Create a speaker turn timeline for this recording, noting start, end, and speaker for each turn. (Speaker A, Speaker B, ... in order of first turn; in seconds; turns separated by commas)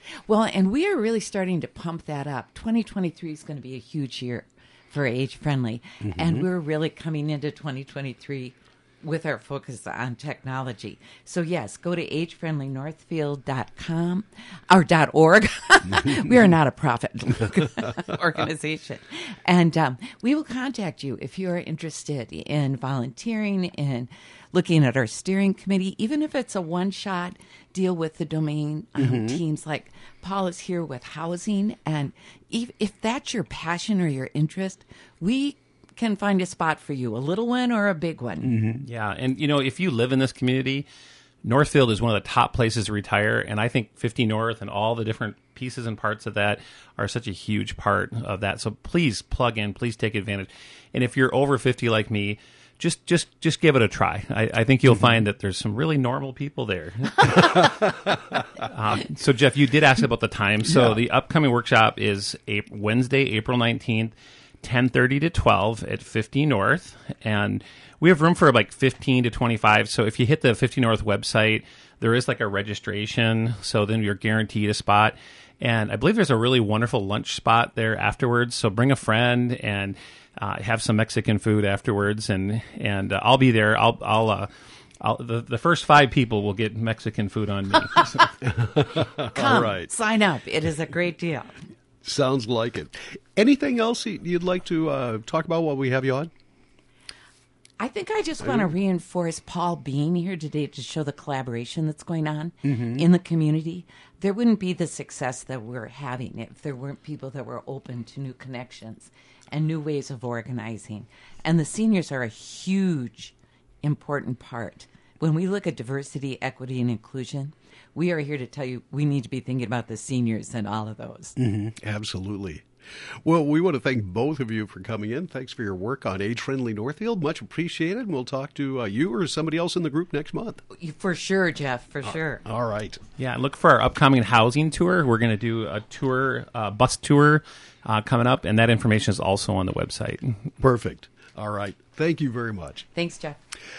Speaker A: 0.3-38.5, Speaker B: 6.0-6.5, Speaker B: 29.0-29.4, Speaker B: 38.4-38.8, Speaker C: 38.8-40.9, Speaker C: 41.4-84.5, Speaker B: 60.7-61.0, Speaker C: 85.0-88.4, Speaker B: 88.4-89.9, Speaker A: 89.3-91.5, Speaker B: 92.0-96.3, Speaker A: 97.8-121.3, Speaker B: 98.4-98.7, Speaker B: 102.6-103.0, Speaker B: 121.3-122.7, Speaker B: 123.2-130.6, Speaker A: 130.7-132.4, Speaker B: 132.1-133.0, Speaker C: 133.2-140.5, Speaker B: 140.6-142.9, Speaker A: 142.9-143.4